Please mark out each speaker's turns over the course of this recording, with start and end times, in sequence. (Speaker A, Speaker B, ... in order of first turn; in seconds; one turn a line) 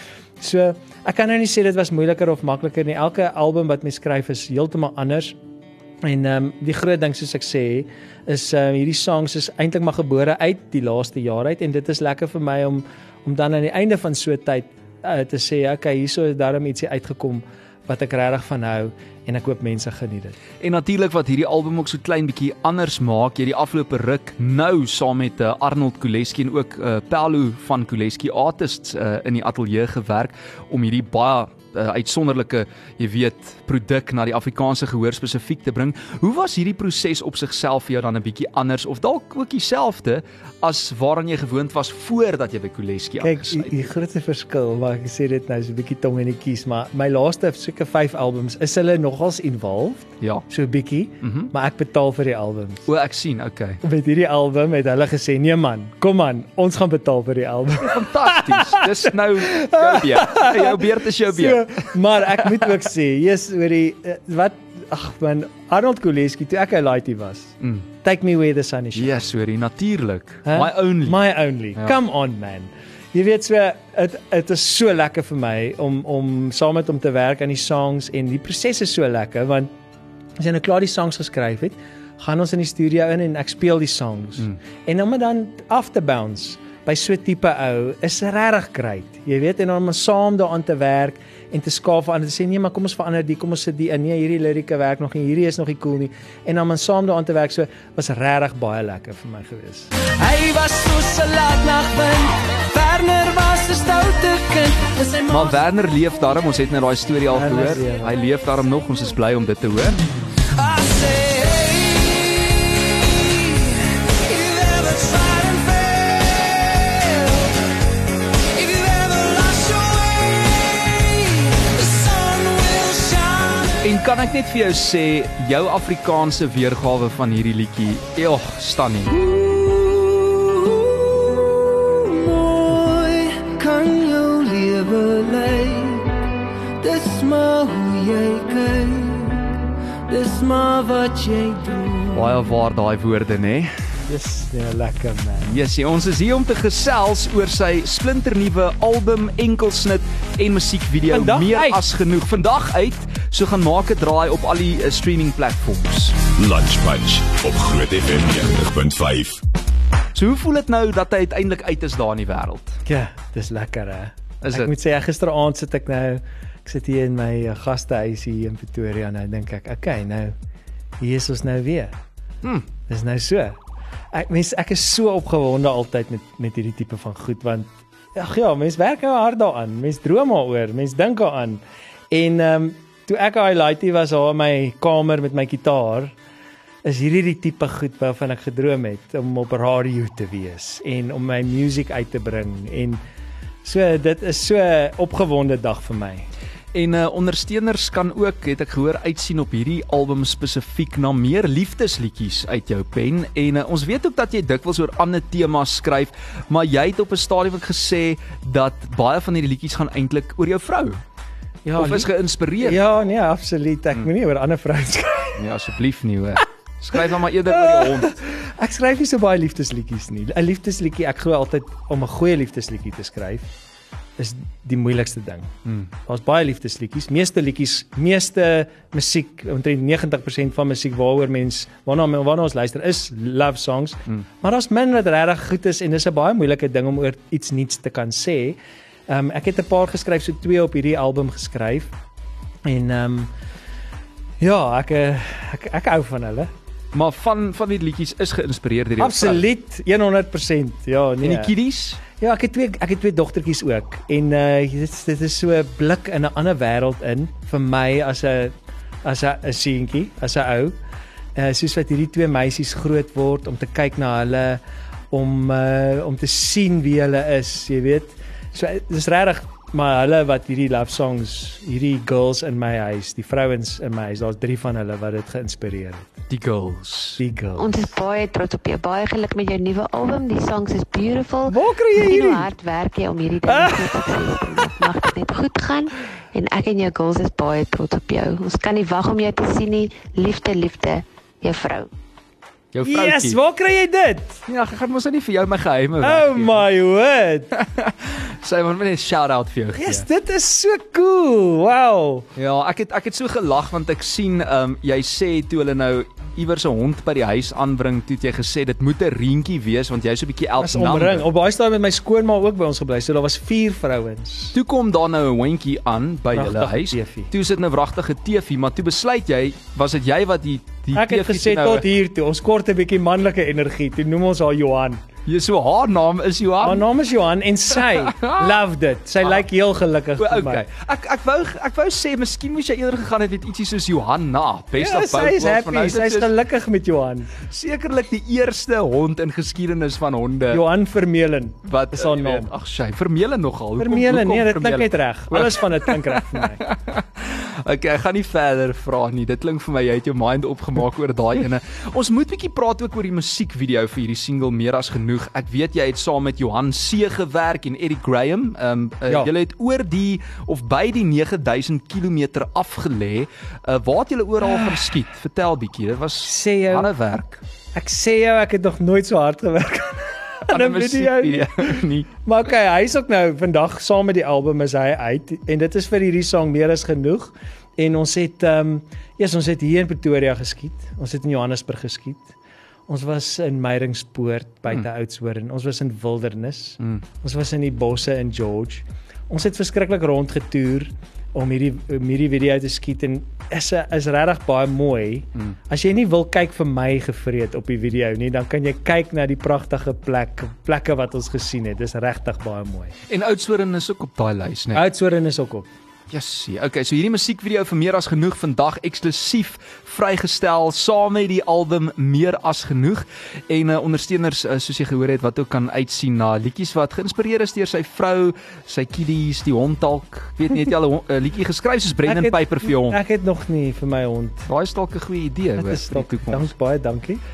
Speaker A: 0.4-5.4
Speaker A: 6.0-20.4
Speaker B: 20.6-43.9
Speaker A: 43.2-52.9
Speaker B: 51.2-51.5
Speaker B: 52.9-53.8
Speaker A: 53.8-69.1
Speaker B: 57.8-61.9
Speaker B: 68.9-71.2
Speaker A: 70.5-79.7
Speaker A: 80.4-99.9
Speaker C: 100.1-105.6
Speaker B: 105.3-110.0
Speaker A: 107.3-108.1
Speaker C: 110.5-117.5
Speaker C: 118.5-123.9
Speaker B: 123.8-129.2
Speaker C: 129.2-136.1
Speaker C: 136.8-139.6
Speaker C: 140.1-142.2
Speaker B: 142.1-143.7
Speaker A: 144.1-145.5
Speaker B: 145.4-156.2
Speaker A: 151.1-151.8
Speaker D: 156.3-159.4
Speaker B: 160.1-162.8
Speaker A: 162.8-170.3
Speaker B: 164.4-164.7
Speaker A: 171.0-171.9
Speaker A: 172.9-173.6
Speaker A: 174.1-186.1
Speaker A: 186.8-193.0
Speaker A: 193.6-196.3
Speaker B: 196.7-211.0
Speaker A: 211.6-215.4
Speaker B: 211.8-212.8
Speaker B: 215.3-218.1
Speaker A: 217.5-223.5
Speaker A: 224.2-225.5
Speaker A: 226.0-241.9
Speaker A: 242.6-243.3
Speaker A: 244.4-246.5
Speaker B: 246.9-249.4
Speaker A: 249.0-251.5
Speaker B: 251.2-252.0
Speaker A: 252.0-260.8
Speaker A: 261.3-276.1
Speaker B: 276.3-277.2
Speaker A: 277.2-277.8
Speaker E: 277.6-291.9
Speaker A: 281.5-282.5
Speaker A: 283.4-284.1
Speaker B: 292.7-293.4
Speaker A: 292.8-294.4
Speaker B: 294.5-296.6
Speaker A: 296.0-297.5
Speaker B: 297.5-300.1
Speaker A: 299.8-302.3
Speaker B: 302.4-311.2
Speaker A: 310.6-314.5
Speaker B: 314.5-321.9
Speaker A: 316.3-317.3
Speaker A: 320.9-325.0
Speaker B: 325.2-326.8
Speaker A: 326.6-330.6
Speaker B: 327.9-328.5
Speaker B: 330.2-336.3
Speaker A: 334.8-337.3
Speaker B: 337.4-340.6
Speaker A: 340.5-342.5
Speaker B: 341.6-367.4
Speaker A: 343.8-346.6
Speaker A: 366.2-366.9
Speaker A: 367.7-382.3
Speaker B: 370.5-372.1
Speaker A: 382.9-402.9
Speaker B: 403.1-404.8
Speaker A: 404.7-405.7
Speaker B: 406.1-423.0
Speaker A: 422.0-424.5
Speaker B: 424.5-426.5
Speaker A: 425.6-427.2